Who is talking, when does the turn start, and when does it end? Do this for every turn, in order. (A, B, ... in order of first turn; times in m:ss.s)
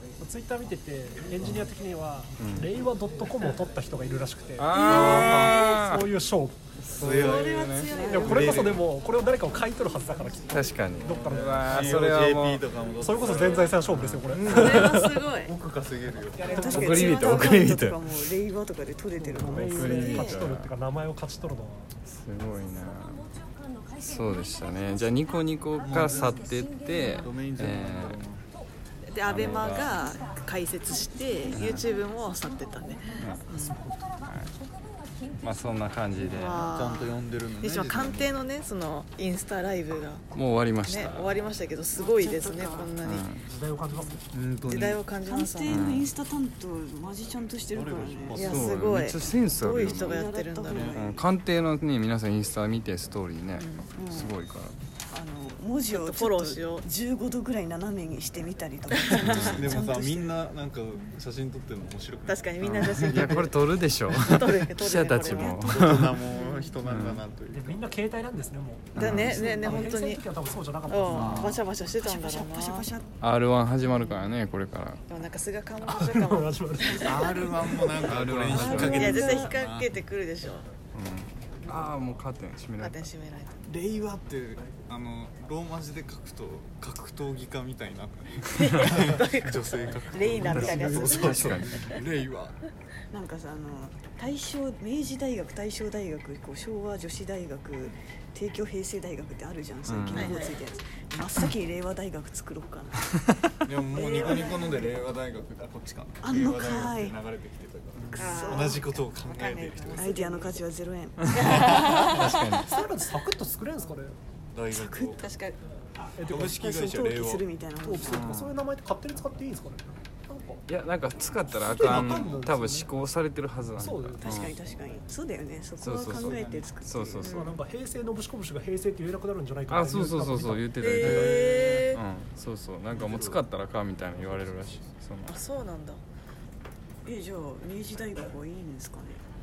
0:00.2-0:06.6 A
0:02.4-0:02.8 B
0:04.6-0:06.1 B
0:04.8-0:05.7 C
0:06.8-0:07.9 B
0:07.0-0:07.7 C
0:07.1-0:08.6 D
0:07.9-0:08.7 E
0:08.0-0:12.0 A
0:08.3-0:08.9 C
0:10.5-0:12.6 B
0:11.3-0:14.6 C
0:12.9-0:15.3 A
0:13.9-0:15.0 B
0:14.5-0:15.6 D
0:15.3-0:16.6 C
0:16.5-0:19.9 E
0:16.5-0:17.1 A
0:16.6-0:18.1 B
0:19.3-0:21.9 A
0:19.4-0:20.7 B
0:20.0-0:20.4 D
0:22.1-0:23.3 B
0:24.0-0:28.2 B
0:25.9-0:26.4 C
0:27.1-0:28.4 C
0:29.1-0:33.8 D
0:29.3-0:30.0 B
0:31.5-0:31.8 B
0:33.2-0:33.5 B
0:34.3-0:34.5 B
0:35.4-0:36.6 B
0:36.2-0:40.3 D
0:36.4-0:38.4 C
0:40.3-0:41.3 B
0:40.8-0:43.3 D
0:42.0-0:42.9 E
0:43.0-0:43.4 B
0:43.5-0:44.2 A
0:44.3-0:45.0 C
0:44.7-0:46.0 D
0:45.2-0:48.4 E
0:45.6-0:46.1 B
0:47.7-0:48.9 C
0:48.4-0:51.0 D
0:48.5-0:54.8 B
0:49.8-0:51.2 E
0:50.7-0:51.0 C
0:53.6-0:53.9 D
0:54.0-0:54.4 E
0:55.1-1:00.4 E
0:55.9-0:56.9 D
0:59.3-0:59.6 B
0:59.4-1:03.6 C
1:02.3-1:03.5 D
1:02.6-1:06.3 B
1:04.2-1:05.6 D
1:05.2-1:05.9 E
1:05.6-1:07.9 C
1:06.3-1:06.7 D
1:06.8-1:07.2 B
1:07.5-1:11.6 A
1:09.0-1:09.4 B
1:09.0-1:10.2 D
1:09.3-1:09.8 E
1:10.9-1:12.9 D
1:11.1-1:11.6 C
1:12.0-1:13.1 E
1:13.2-1:15.0 B
1:13.8-1:14.3 D
1:15.1-1:17.5 D
1:15.9-1:18.0 A
1:17.0-1:19.9 C
1:18.1-1:19.2 B
1:18.5-1:19.5 E
1:18.6-1:20.7 D
1:20.9-1:23.0 B
1:22.8-1:23.6 D
1:23.6-1:32.6 C
1:28.5-1:32.0 D
1:30.4-1:31.3 A
1:30.7-1:31.8 B
1:33.1-1:43.1 E
1:39.9-1:40.3 B
1:40.1-1:40.6 D
1:43.6-1:50.1 C
1:43.9-1:44.9 D
1:46.2-1:47.2 E
1:48.1-1:48.8 E
1:48.2-1:50.6 D
1:50.0-1:51.3 E
1:51.3-1:52.7 D
1:51.4-1:52.0 C
1:51.9-1:54.2 A
1:52.1-1:52.7 B
1:54.5-1:55.3 C
1:54.7-1:55.2 E
1:55.2-1:55.6 D
1:56.2-1:56.7 A
1:56.2-1:57.5 C
1:56.6-1:58.2 E
1:57.8-2:00.6 A
1:58.1-1:58.6 C
2:00.7-2:04.6 B
2:01.6-2:02.9 A
2:01.7-2:02.4 C
2:03.8-2:04.4 A
2:04.2-2:07.3 E
2:05.8-2:07.4 B
2:06.1-2:06.7 C
2:07.2-2:07.6 D
2:07.3-2:10.8 A
2:09.7-2:15.3 B
2:10.8-2:12.0 D
2:11.0-2:11.8 C
2:12.9-2:13.4 C
2:15.3-2:16.0 D
2:17.0-2:19.2 E